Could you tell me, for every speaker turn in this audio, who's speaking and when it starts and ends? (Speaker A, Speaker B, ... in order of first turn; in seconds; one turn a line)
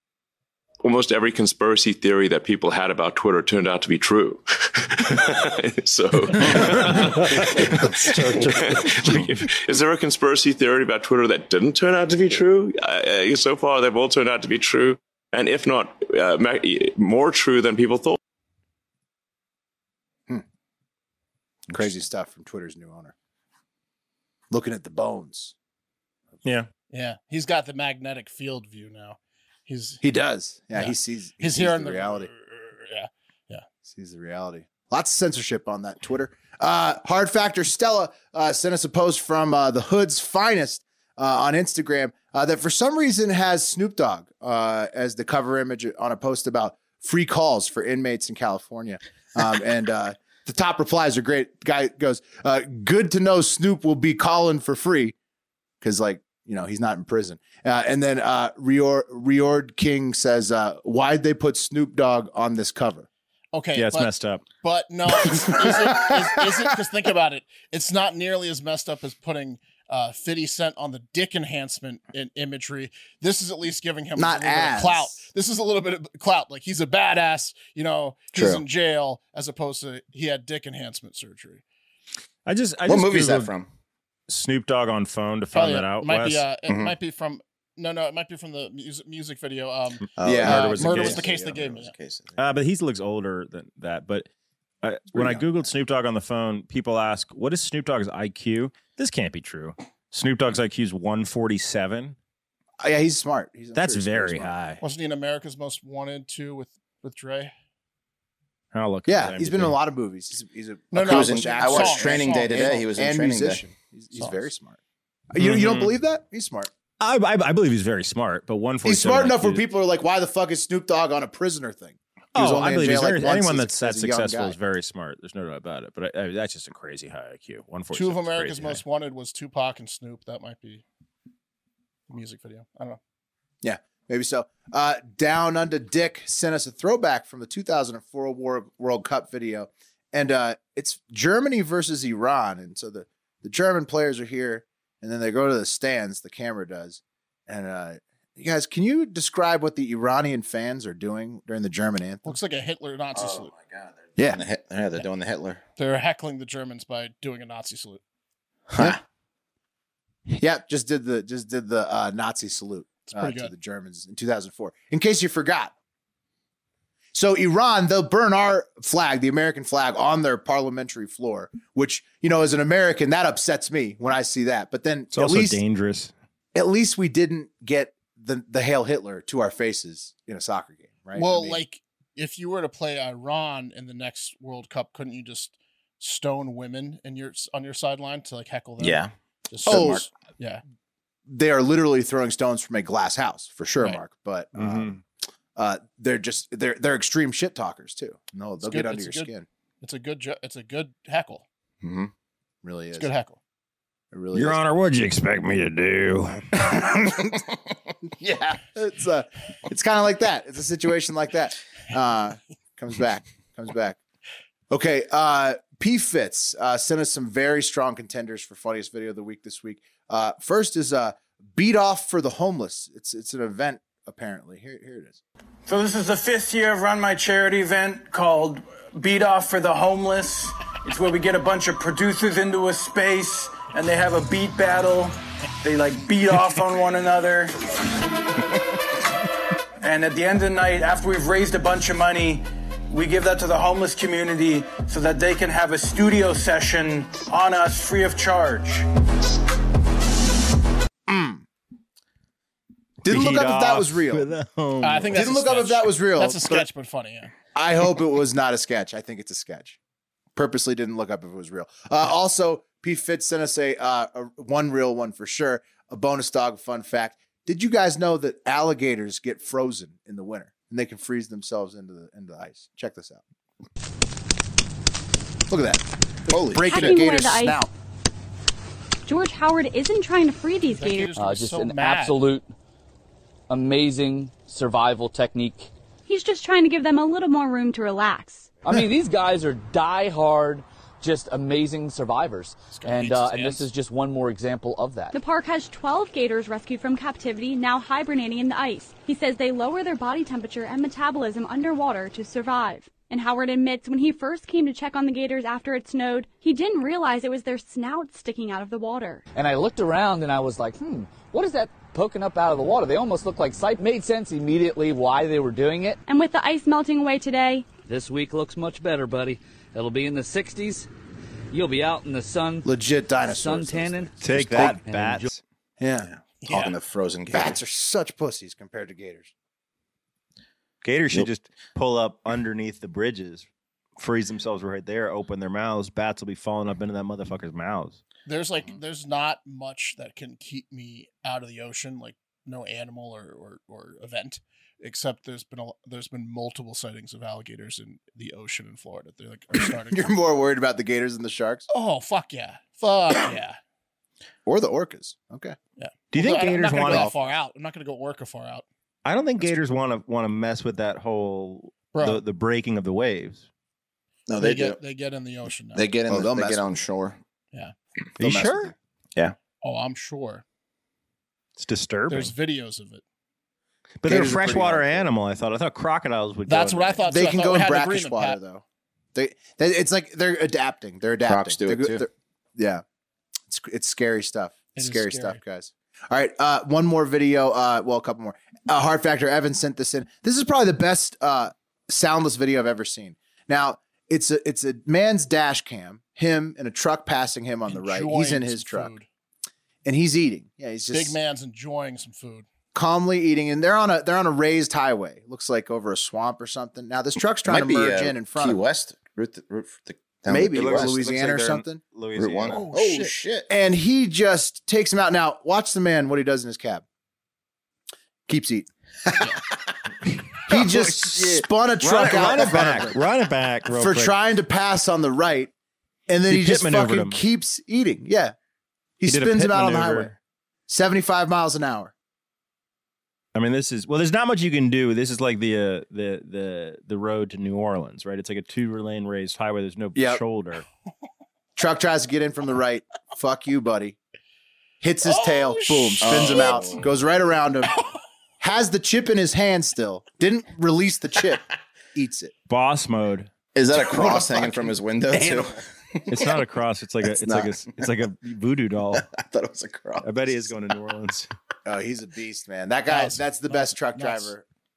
Speaker A: 0.8-18.2
Speaker B: 21.7-23.1
Speaker B: 24.5-25.5
Speaker C: 26.4-26.7
Speaker D: 26.9-30.0
Speaker B: 30.0-32.3
Speaker D: 30.7-33.6
Speaker B: 33.9-55.1
Speaker B: 55.8-63.1
Speaker D: 63.5-81.6
Speaker C: 63.8-64.4
Speaker B: 65.7-66.1
Speaker B: 74.2-75.2
Speaker E: 78.3-78.6
Speaker C: 82.5-83.5
Speaker E: 82.9-83.7
Speaker C: 84.3-86.4
Speaker D: 85.5-91.9
Speaker E: 86.7-86.9
Speaker E: 90.2-92.4
Speaker B: 90.2-90.7
Speaker C: 90.4-91.2
Speaker C: 92.4-94.3
Speaker C: 94.8-102.2
Speaker B: 95.1-95.4
Speaker B: 102.8-104.5
Speaker C: 103.7-104.8
Speaker D: 104.8-107.5
Speaker C: 108.7-109.8
Speaker B: 109.0-114.8
Speaker D: 110.9-112.8
Speaker E: 110.9-113.6
Speaker D: 114.2-114.5
Speaker B: 115.3-116.7
Speaker C: 115.4-116.0
Speaker C: 117.0-119.6
Speaker B: 118.8-124.5
Speaker C: 122.3-128.8
Speaker D: 127.9-130.8
Speaker D: 132.1-133.0
Speaker B: 133.6-152.4
Speaker D: 152.2-153.5
Speaker E: 153.1-155.6
Speaker D: 155.8-158.0
Speaker E: 158.7-159.0
Speaker B: 160.3-165.7
Speaker D: 163.1-163.5
Speaker B: 167.1-175.6
Speaker C: 175.1-176.1
Speaker B: 176.5-181.6
Speaker D: 181.1-190.6
Speaker E: 188.8-190.1
Speaker B: 189.7-190.1
Speaker B: 191.3-195.0
Speaker C: 194.5-195.0
Speaker B: 195.6-199.4
Speaker D: 198.6-199.3
Speaker D: 199.8-201.4
Speaker E: 201.8-202.1
Speaker B: 202.6-203.1
Speaker D: 202.9-203.4
Speaker B: 204.1-204.6
Speaker C: 204.3-206.9
Speaker B: 206.7-207.4
Speaker B: 208.2-214.0
Speaker B: 214.7-225.2
Speaker F: 225.7-237.5
Speaker F: 239.8-248.8
Speaker B: 251.1-251.4
Speaker B: 253.0-254.3
Speaker C: 253.1-255.3
Speaker D: 254.8-257.3
Speaker B: 255.1-256.7
Speaker B: 257.5-259.8
Speaker B: 260.3-273.2
Speaker B: 275.5-277.7
Speaker E: 276.3-277.0
Speaker G: 276.6-277.6
Speaker G: 279.0-281.1
Speaker D: 280.7-282.2
Speaker H: 281.1-282.5
Speaker H: 283.5-285.7
Speaker G: 286.1-288.5
Speaker H: 288.6-295.1
Speaker D: 292.7-293.6
Speaker G: 295.1-309.2
Speaker H: 309.3-316.0
Speaker G: 316.1-317.7
Speaker H: 317.8-320.9
Speaker H: 321.5-322.7
Speaker B: 322.6-324.8
Speaker H: 323.2-325.3
Speaker C: 324.2-325.4
Speaker B: 325.8-326.1
Speaker E: 326.0-327.6
Speaker D: 326.4-326.7
Speaker B: 327.3-329.3
Speaker C: 330.8-338.0
Speaker D: 338.2-350.1
Speaker B: 349.6-351.6
Speaker D: 351.7-353.6
Speaker B: 354.4-355.6
Speaker D: 355.8-358.6
Speaker C: 356.1-357.1
Speaker B: 356.9-357.1
Speaker C: 359.0-363.5
Speaker D: 361.9-362.2
Speaker E: 364.3-364.8
Speaker D: 364.4-365.8
Speaker E: 365.7-367.2
Speaker B: 366.1-366.8
Speaker C: 368.2-368.7
Speaker B: 368.2-368.7
Speaker D: 369.6-370.4
Speaker C: 371.6-372.3
Speaker D: 372.1-373.0
Speaker C: 374.0-377.0
Speaker B: 374.1-375.1
Speaker D: 376.5-378.4
Speaker B: 377.1-378.6
Speaker B: 379.1-382.8
Speaker E: 381.3-382.1
Speaker B: 383.5-398.9
Speaker D: 384.8-385.4
Speaker D: 397.7-399.1
Speaker B: 399.8-401.1
Speaker D: 400.9-402.4
Speaker B: 402.7-408.6
Speaker E: 407.4-410.9
Speaker B: 410.3-411.8
Speaker C: 410.5-412.6
Speaker E: 412.2-413.5
Speaker D: 412.5-413.1
Speaker B: 413.5-416.8
Speaker B: 418.3-419.2
Speaker B: 420.5-423.0
Speaker C: 421.8-424.1
Speaker B: 423.7-425.5
Speaker B: 426.1-428.3
Speaker C: 426.3-427.2
Speaker B: 429.0-430.1
Speaker C: 429.1-430.1
Speaker B: 430.7-431.9
Speaker C: 433.3-440.6
Speaker B: 439.9-440.2
Speaker B: 441.6-444.0
Speaker B: 444.8-447.7
Speaker D: 445.0-446.8
Speaker E: 446.0-446.8
Speaker B: 448.4-452.3
Speaker C: 452.5-453.3
Speaker E: 453.5-456.1
Speaker B: 453.9-454.5
Speaker B: 455.1-455.4
Speaker C: 456.1-459.1
Speaker E: 457.0-457.9
Speaker E: 459.0-460.1
Speaker C: 460.0-461.3
Speaker B: 461.6-464.4
Speaker D: 462.9-464.3